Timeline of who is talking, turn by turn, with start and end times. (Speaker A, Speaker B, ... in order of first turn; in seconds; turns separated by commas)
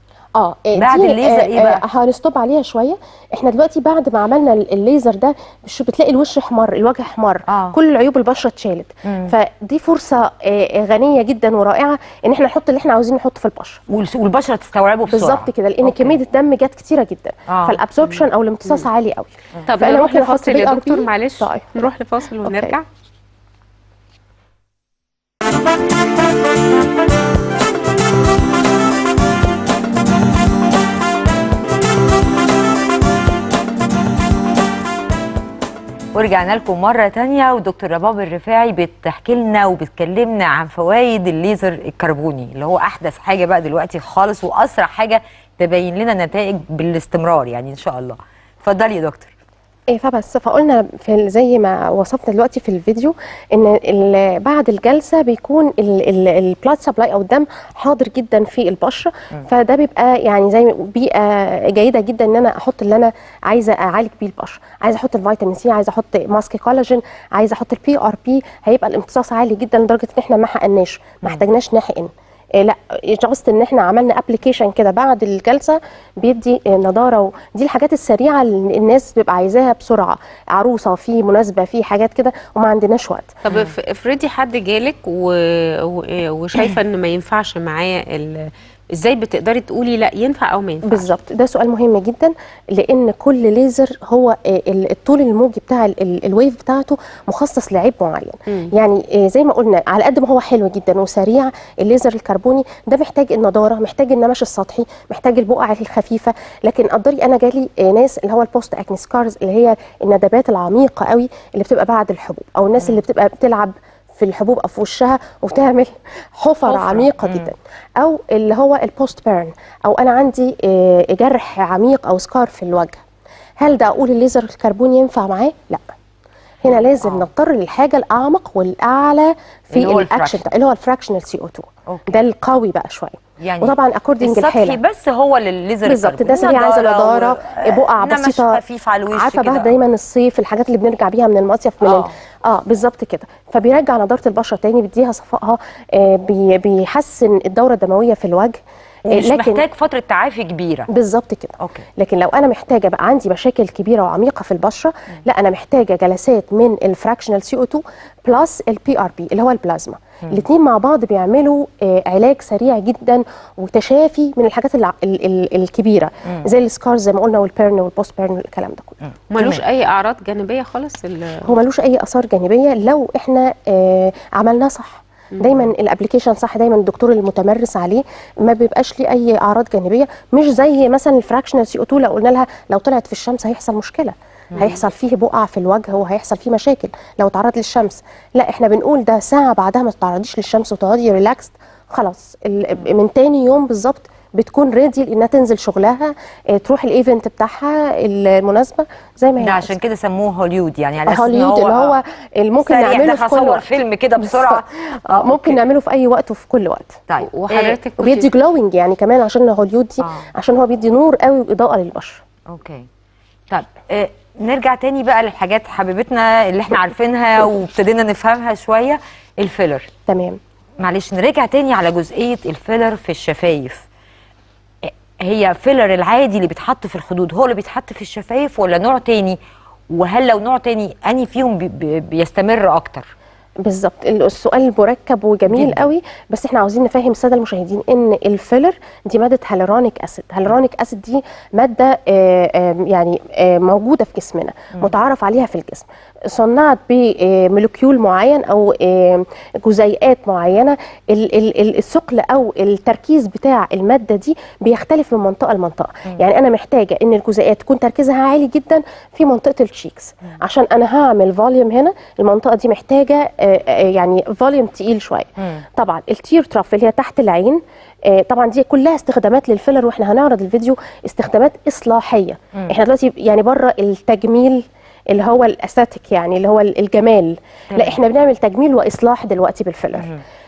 Speaker A: 0.3-13.8, Speaker B: 0.8-1.8, Speaker B: 7.5-7.8, Speaker B: 9.1-9.3, Speaker B: 13.9-16.2, Speaker A: 15.1-21.8, Speaker B: 17.5-18.2, Speaker C: 19.7-22.9, Speaker A: 22.4-22.8, Speaker B: 36.1-49.3, Speaker A: 49.9-83.3, Speaker C: 83.4-91.1, Speaker A: 90.8-123.0, Speaker B: 116.7-117.5, Speaker A: 123.6-125.9, Speaker A: 126.6-134.8, Speaker B: 127.0-127.3, Speaker B: 129.7-130.4, Speaker B: 131.9-132.2, Speaker B: 133.4-139.8, Speaker A: 135.8-149.7, Speaker B: 141.8-142.2, Speaker B: 149.1-150.9, Speaker A: 150.9-169.0, Speaker B: 151.6-151.8, Speaker B: 169.0-169.6, Speaker C: 169.3-171.5, Speaker A: 171.4-199.8, Speaker B: 199.4-202.0, Speaker A: 201.1-207.0, Speaker B: 202.6-205.6, Speaker B: 207.1-207.8, Speaker C: 207.2-208.3, Speaker A: 208.0-212.2, Speaker B: 210.0-210.3, Speaker B: 212.5-212.9, Speaker B: 213.5-219.9, Speaker A: 220.1-220.4, Speaker B: 220.8-223.9, Speaker B: 224.8-229.4, Speaker B: 229.9-233.1, Speaker A: 233.6-280.1, Speaker B: 235.5-235.9, Speaker B: 265.4-265.6, Speaker B: 277.7-278.0